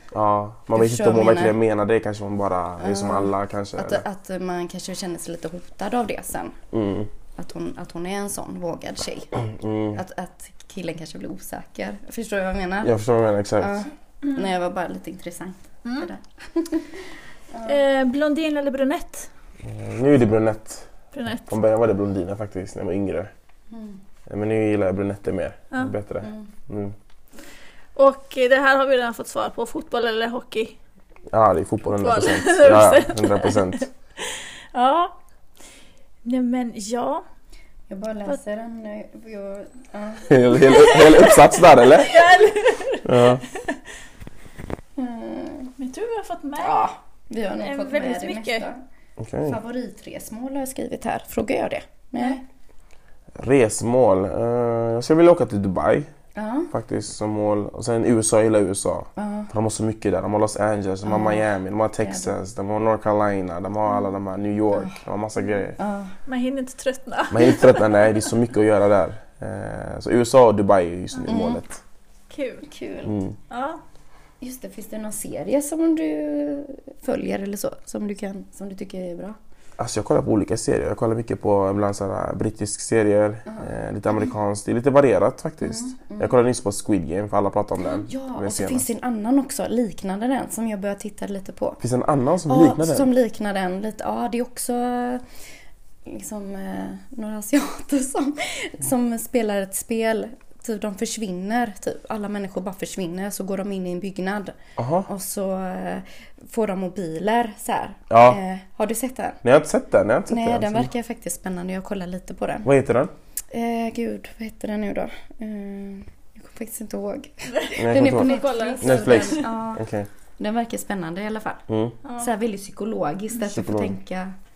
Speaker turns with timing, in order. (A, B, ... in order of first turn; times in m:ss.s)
0:00.1-0:04.0 A
0:00.8-0:01.6 B
0:02.8-0:06.6 B
0:06.7-0:07.1 A
0:07.4-0:09.4 B
0:09.4-0:10.0 A
0:10.0-0:12.9 B
0:12.8-0:13.9 A
0:13.6-0:17.0 B
0:17.5-0:17.8 B
0:17.6-0:19.3 C
0:19.6-0:20.9 A
0:21.1-0:21.5 C
0:21.4-0:23.3 A
0:23.7-0:24.0 B
0:24.3-0:27.0 A
0:26.2-0:26.5 B
0:28.0-0:30.8 C
0:31.3-0:33.8 A
0:32.0-0:35.2 C
0:36.2-0:37.2 C
0:37.9-0:41.0 B
0:40.3-0:42.3 A
0:40.6-0:43.8 C
0:43.0-0:43.4 A
0:45.0-0:45.7 B
0:45.8-0:46.9 C
0:46.6-0:48.8 B
0:47.6-0:48.7 C
0:49.2-0:49.6 A
0:49.4-0:52.4 B
0:53.4-0:56.1 A
0:56.4-0:56.7 B
0:56.7-1:05.8 A
0:59.2-0:59.5 B
1:01.0-1:02.4 B
1:05.8-1:06.1 B
1:06.3-1:08.1 C
1:07.3-1:11.8 A
1:11.3-1:11.6 B
1:12.3-1:12.7 C
1:12.7-1:13.2 B
1:13.0-1:13.4 A
1:13.5-1:13.8 C
1:14.4-1:19.4 B
1:19.8-1:28.8 A
1:25.6-1:26.4 B
1:28.0-1:31.8 B
1:31.8-1:33.1 A
1:32.5-1:35.2 B
1:36.1-1:44.6 B
1:44.8-1:45.1 A
1:45.1-1:49.4 B
1:48.1-1:48.4 A
1:49.4-1:50.9 A
1:50.3-1:52.7 B
1:52.6-1:53.1 A
1:53.5-1:59.8 B
1:57.6-1:59.4 C
1:57.8-2:00.1 A
2:00.4-2:01.6 B
2:01.7-2:02.0 A
2:02.2-2:04.4 B
2:03.5-2:04.0 A